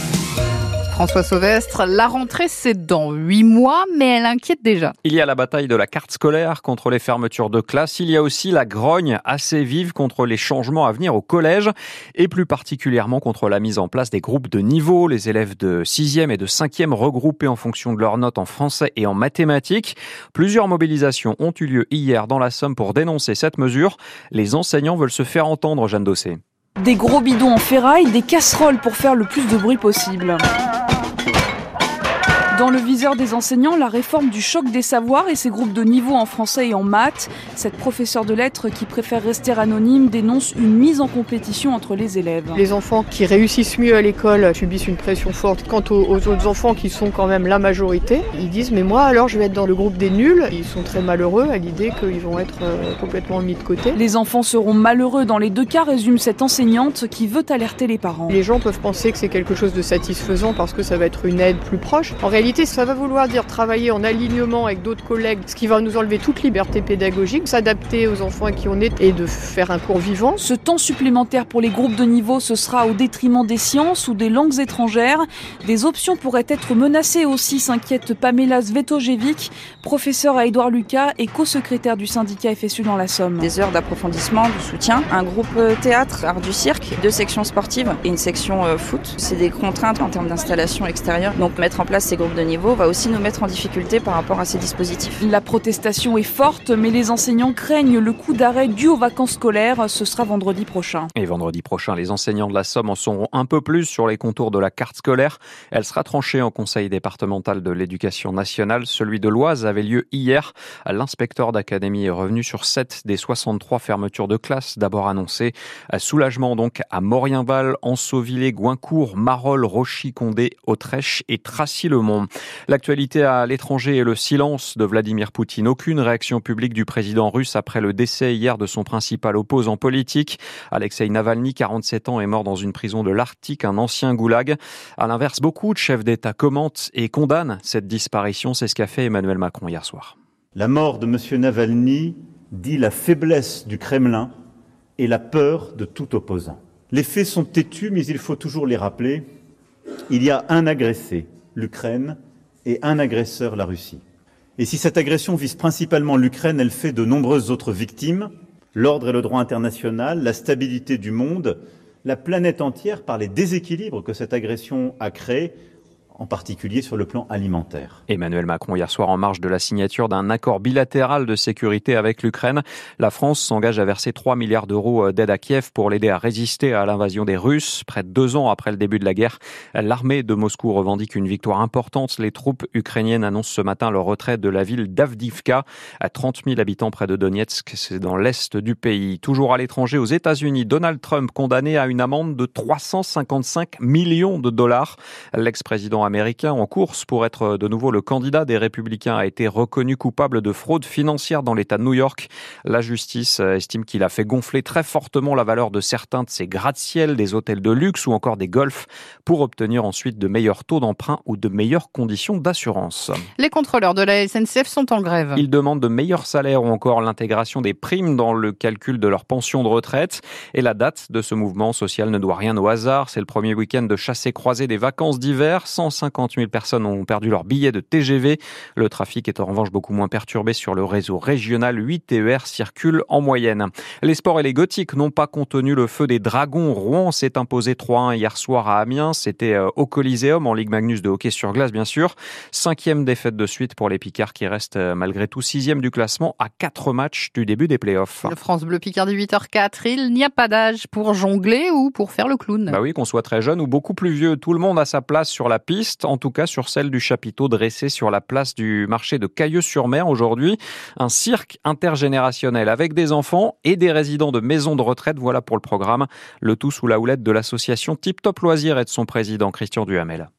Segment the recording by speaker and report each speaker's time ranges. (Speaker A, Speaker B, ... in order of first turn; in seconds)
Speaker A: 0.9-4.9, 213.4-215.4, 248.2-252.8
Speaker B: 5.0-26.4, 101.2-140.2, 168.1-213.2, 215.3-248.3, 252.7-270.3
Speaker C: 26.8-30.4, 32.5-42.6, 53.9-58.4, 70.4-83.5, 95.2-101.1
Speaker D: 42.5-54.0, 58.3-70.4
Speaker E: 83.4-95.2
Speaker F: 140.6-144.3, 145.0-149.2, 150.1-154.0, 154.6-165.6, 166.2-168.0